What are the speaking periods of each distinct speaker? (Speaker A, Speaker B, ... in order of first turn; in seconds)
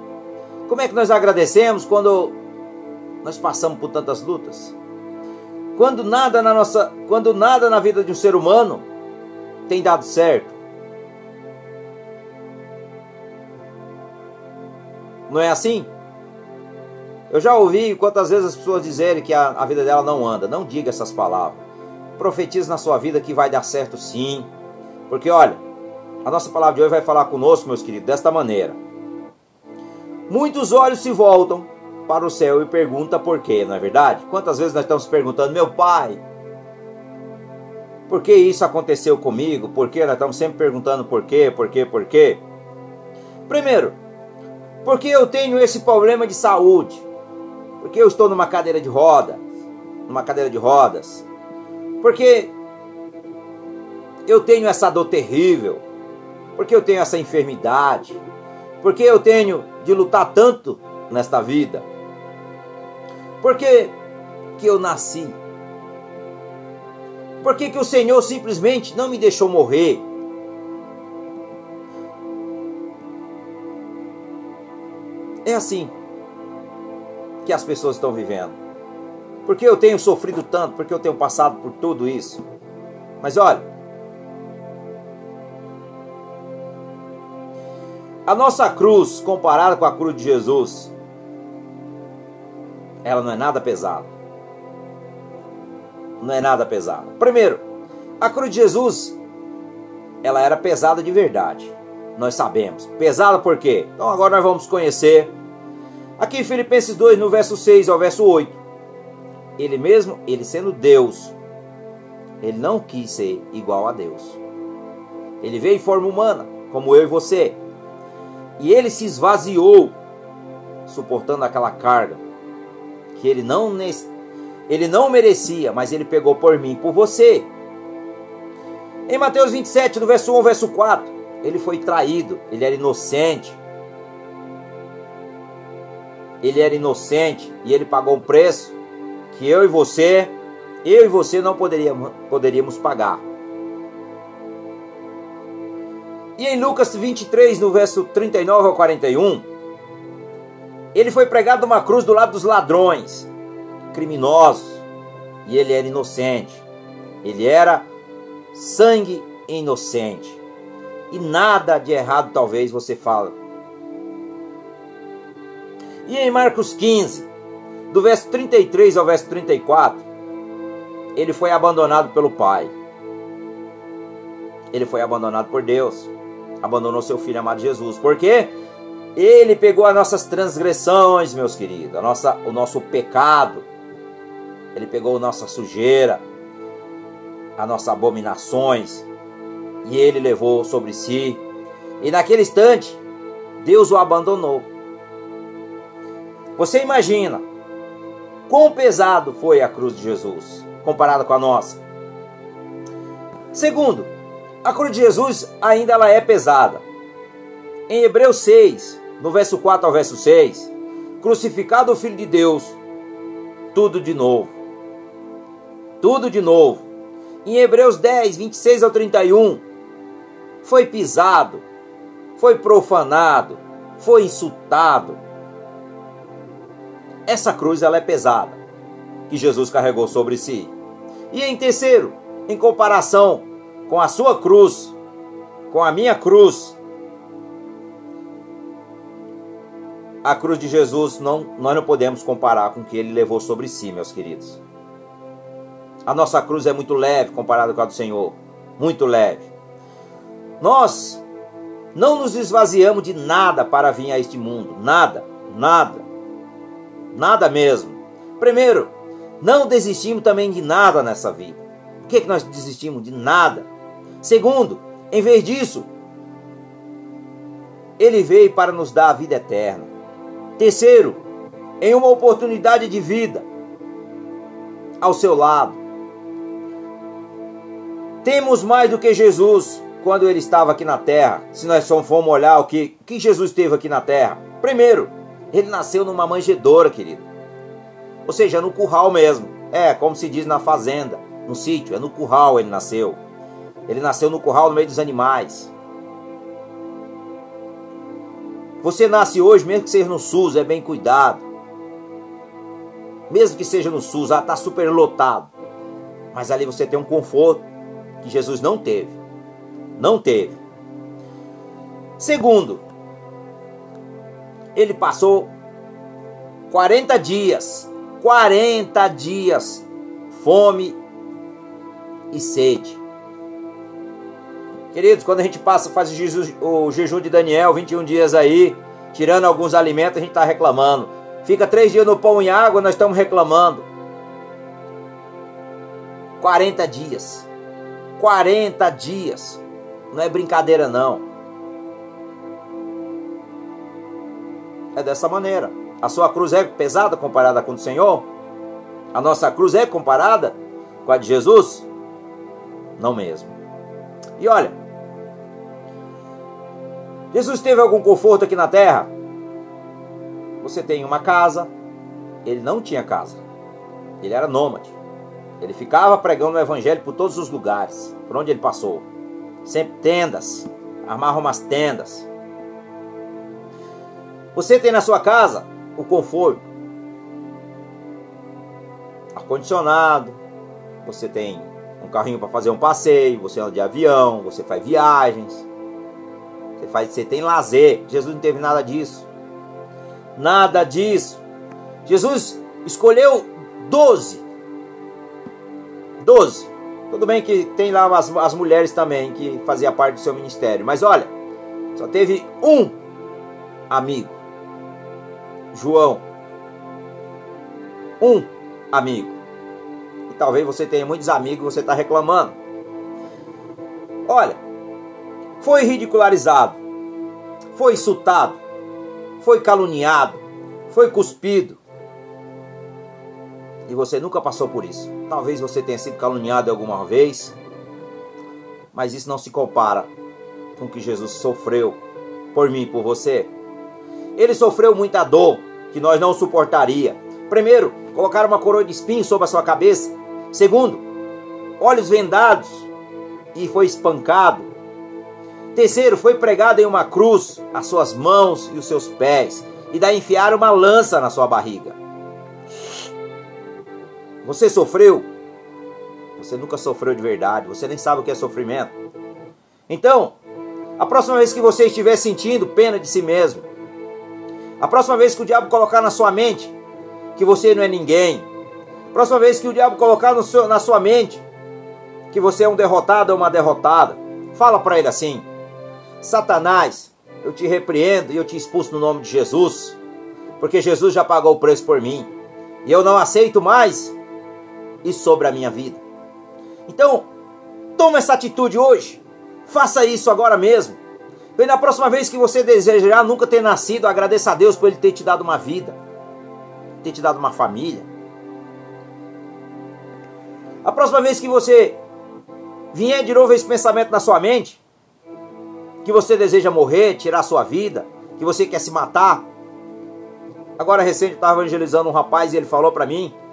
Speaker A: 0.7-2.4, 3.2-4.7, 5.7-8.8, 9.7-10.5, 15.3-15.9, 17.3-21.6, 22.2-24.5, 25.1-25.6, 26.2-28.8, 30.3-36.2, 38.1-42.4, 43.5-44.0, 44.8-47.0, 47.8-49.4, 50.1-51.2, 52.0-52.5, 54.2-55.8, 56.5-58.2, 58.8-61.9, 63.4-63.9, 64.6-65.3, 67.4-70.0, 75.4-75.9, 77.4-78.5, 79.4-82.4, 83.2-83.7, 88.2-90.9, 93.0-94.1, 96.2-97.6, 98.2-99.2, 100.2-105.3, 106.2-108.6, 109.6-111.3, 112.4-114.4, 115.4-117.6, 118.6-119.9, 120.8-122.2, 123.1-124.1, 124.7-127.5, 129.1-133.6, 136.4-138.8, 139.3-143.2, 146.4-149.4, 150.9-153.3, 153.9-154.8, 155.4-156.7, 157.2-157.9, 158.5-160.4, 161.1-163.4, 166.0-167.3, 167.9-170.0, 171.1-172.7, 174.7-176.1, 176.6-178.5, 179.2-183.7, 184.7-186.2, 187.6-189.1, 189.8-191.4, 192.0-193.0, 193.6-194.7, 196.6-197.4, 198.5-201.8, 203.5-204.1, 204.6-206.8, 207.9-212.8, 213.7-214.6, 216.0-216.8, 217.4-219.6, 220.6-221.6, 222.4-225.2, 227.3-228.6, 229.3-230.7, 231.3-234.9, 235.7-236.8, 240.2-244.6, 246.1-249.5, 250.6-251.2, 251.9-256.1, 257.1-263.7, 264.2-265.9, 268.0-269.9, 270.6-271.2, 271.8-273.5, 275.0-275.8, 278.2-287.2, 288.2-293.2, 293.9-295.7, 298.8-301.4, 303.3-305.5, 306.3-307.6, 308.2-309.2, 310.0-310.6, 312.2-312.8, 314.7-315.5, 316.7-321.0, 322.3-323.0, 324.9-333.9, 336.4-337.5, 338.2-341.2, 344.9-348.3, 349.1-351.9, 353.0-353.6, 354.4-354.8, 357.3-359.1, 360.6-361.7, 362.4-363.4, 364.2-364.9, 365.6-369.1, 369.6-372.3, 374.5-376.7, 379.3-380.4, 381.0-385.6, 386.8-389.3, 390.4-391.4, 392.0-394.4, 396.2-401.3, 401.9-402.9, 403.9-404.4, 405.7-406.2, 408.2-409.4, 410.3-412.5, 414.2-414.6, 415.6-416.8, 417.7-418.6, 419.4-421.8, 423.9-427.6, 428.9-430.1, 430.8-432.0, 432.5-433.5, 434.4-441.0, 441.8-442.9, 443.5-444.7, 445.7-452.0, 454.4-455.2, 456.4-458.9, 459.9-460.4, 461.0-463.7, 464.8-466.7, 467.4-468.5, 469.1-471.4, 472.3-475.5, 476.2-480.0, 480.6-482.3, 482.8-484.1, 485.0-486.0, 486.9-487.3, 488.0-491.0, 491.6-496.0, 497.0-498.1, 500.8-502.0, 502.9-504.8, 506.0-509.4, 510.8-513.3